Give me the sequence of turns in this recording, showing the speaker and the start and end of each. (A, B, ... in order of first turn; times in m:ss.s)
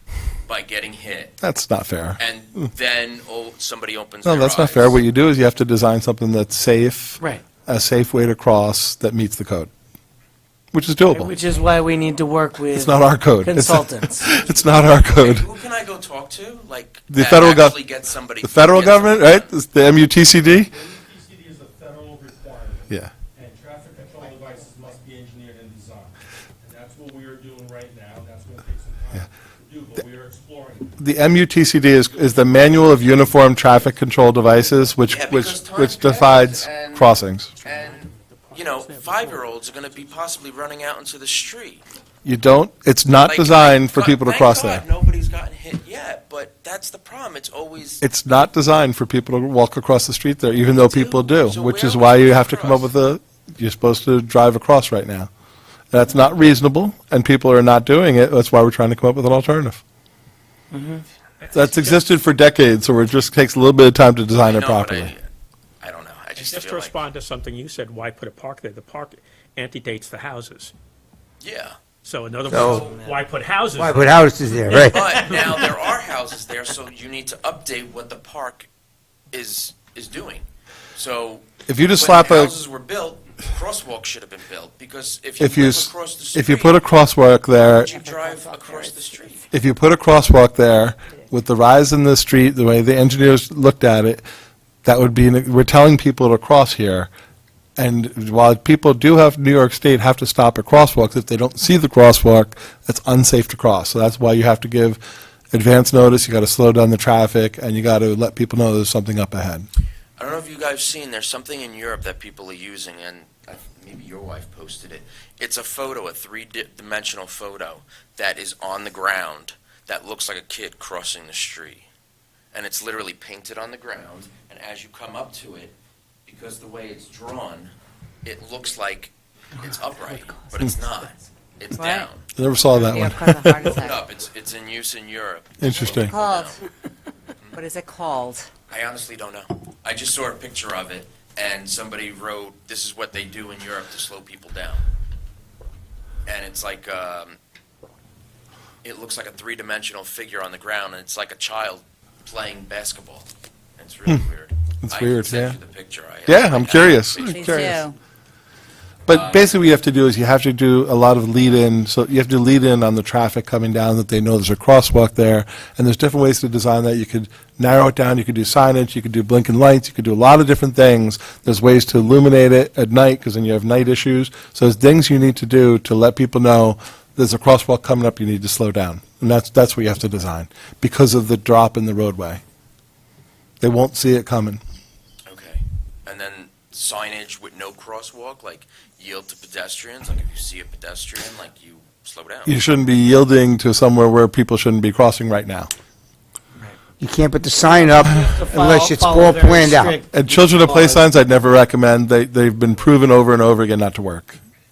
0:00.5-0:01.4 A
0:01.4-0:02.6 B
0:02.2-0:05.0 A
0:04.2-0:09.7 B
0:10.7-0:11.4 B
0:11.1-0:14.3 C
0:12.7-0:15.5 B
0:14.2-0:19.5 A
0:17.1-0:17.8 B
0:18.4-0:20.7 B
0:20.7-0:22.9 D
0:21.0-0:22.7 E
0:23.4-0:23.8 D
0:23.4-0:26.1 E
0:24.5-0:26.1 D
0:26.6-0:30.9 D
0:26.7-0:28.9 E
0:29.7-0:30.8 E
0:31.0-0:37.6 B
0:35.1-0:41.8 A
0:38.2-0:39.4 E
0:42.2-0:44.8 B
0:43.2-0:48.0 A
0:48.0-0:55.3 B
0:50.7-0:52.9 A
0:55.9-0:59.8 B
1:00.7-1:01.0 C
1:01.5-1:05.1 B
1:01.8-1:02.0 E
1:04.4-1:05.2 A
1:05.8-1:07.0 A
1:06.4-1:10.7 E
1:11.4-1:11.8 A
1:12.0-1:14.0 E
1:12.5-1:12.9 F
1:12.8-1:13.2 C
1:13.7-1:15.4 F
1:14.6-1:15.3 E
1:14.8-1:18.7 A
1:19.3-1:27.0 A
1:21.7-1:22.6 B
1:25.4-1:28.0 B
1:27.5-1:29.5 A
1:27.8-1:28.9 G
1:29.5-1:34.2 B
1:34.8-1:37.1 B
1:37.8-1:45.0 B
1:45.5-1:49.7 B
1:50.2-2:01.8 A
2:02.5-2:05.7 A
2:06.3-2:07.7 A
2:08.2-2:12.2 A
2:11.7-2:12.1 G
2:12.4-2:13.8 B
2:12.7-2:14.0 G
2:13.7-2:16.6 A
2:15.6-2:16.1 B
2:15.8-2:16.6 G
2:17.5-2:18.5 G
2:18.7-2:24.8 A
2:26.3-2:27.4 A
2:28.8-2:37.9 A
2:34.8-2:35.6 B
2:36.2-2:37.8 B
2:37.2-2:38.0 G
2:39.1-3:02.4 B
2:39.1-2:39.5 A
3:03.6-3:04.6 B
3:05.3-3:12.6 A
3:12.5-3:15.7 B
3:17.0-3:20.0 F
3:17.6-3:21.0 C
3:20.0-3:24.4 B